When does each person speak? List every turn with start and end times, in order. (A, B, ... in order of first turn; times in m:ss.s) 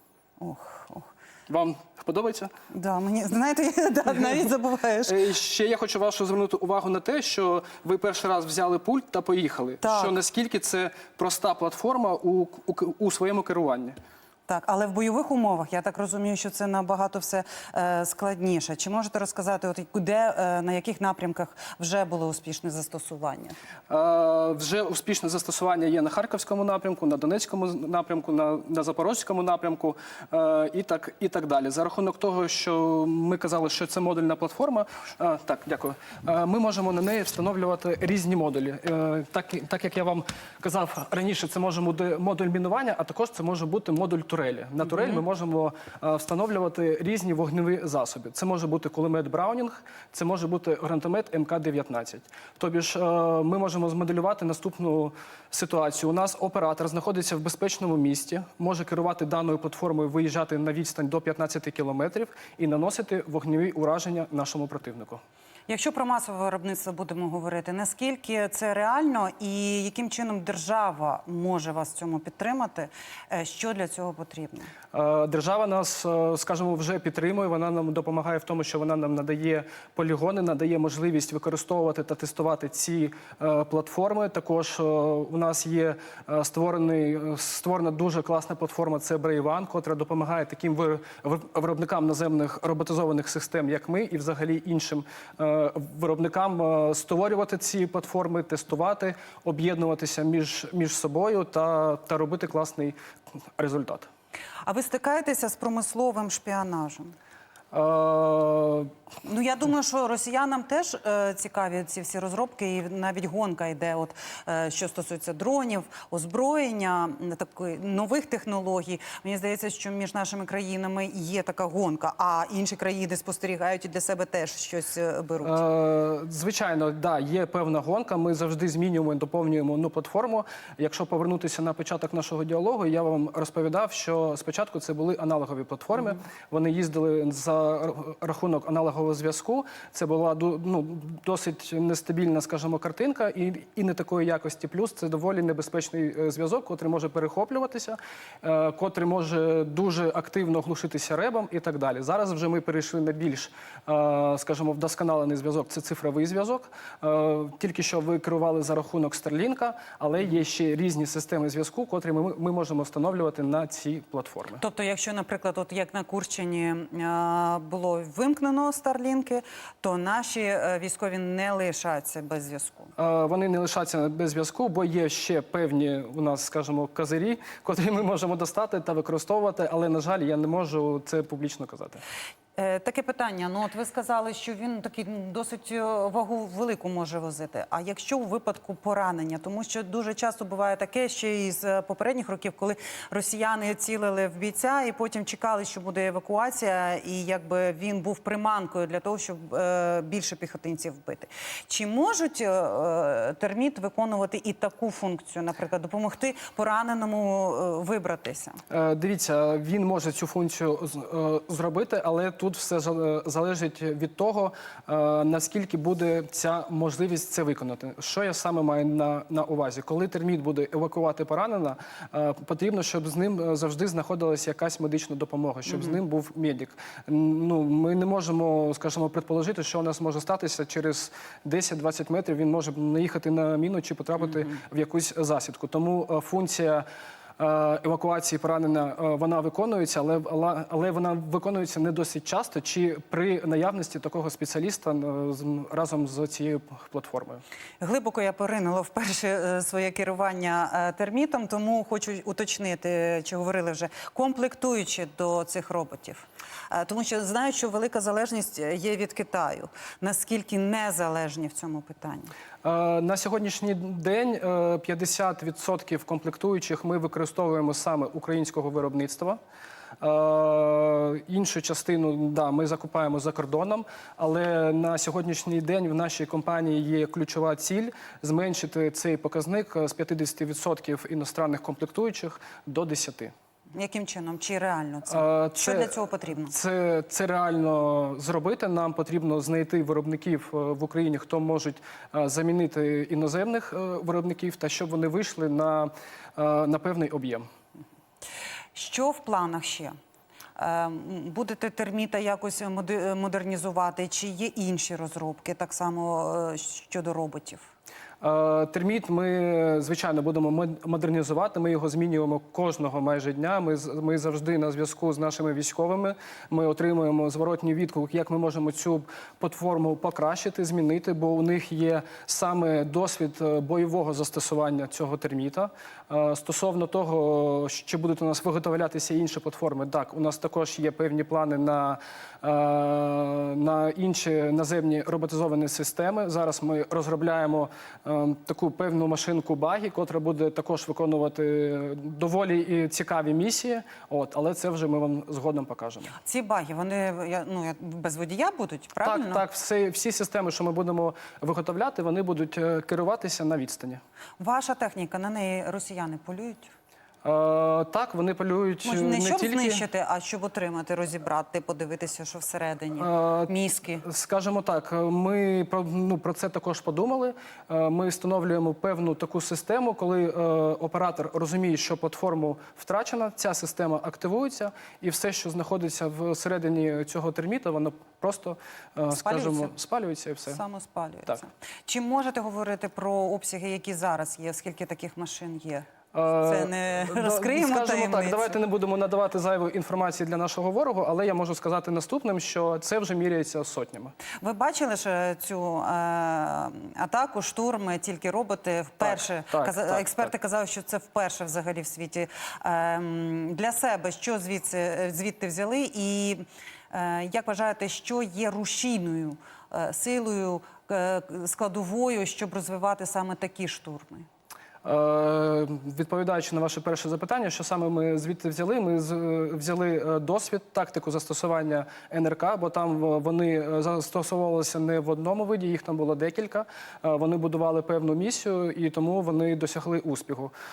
0:00.4-0:01.1 A
0:01.5-0:02.5 B
0:02.7-0:05.2 A
0:05.0-0:14.0 B
0:09.8-0:10.1 A
0:14.5-0:23.6 A
0:23.9-1:05.2 B
1:05.7-1:14.7 A
1:14.9-1:42.9 B
1:43.6-1:44.1 B
1:44.6-1:47.1 A
1:47.7-1:48.9 B
1:49.2-2:05.6 A
2:05.4-2:44.6 B
2:44.6-2:52.9 A
2:53.0-3:02.0 B
3:02.6-3:28.6 A
3:28.7-3:56.8 B
3:57.4-4:07.4 B
4:07.8-4:22.3 A
4:22.6-4:29.4 B
4:30.0-4:43.3 B
4:43.7-4:46.5 A
4:45.1-4:57.4 B
4:58.7-4:59.9 A
5:00.6-5:07.7 A
5:08.2-5:46.1 B
5:46.2-5:49.4 A
5:49.0-5:54.0 B
5:54.4-5:56.7 A
5:57.2-5:59.8 B
5:58.8-6:04.0 A
6:02.9-6:20.6 B
6:19.2-6:19.7 A
6:20.5-6:28.6 A
6:26.1-6:34.1 B
6:34.4-6:54.3 A
6:39.0-6:40.3 B
6:54.8-7:10.5 B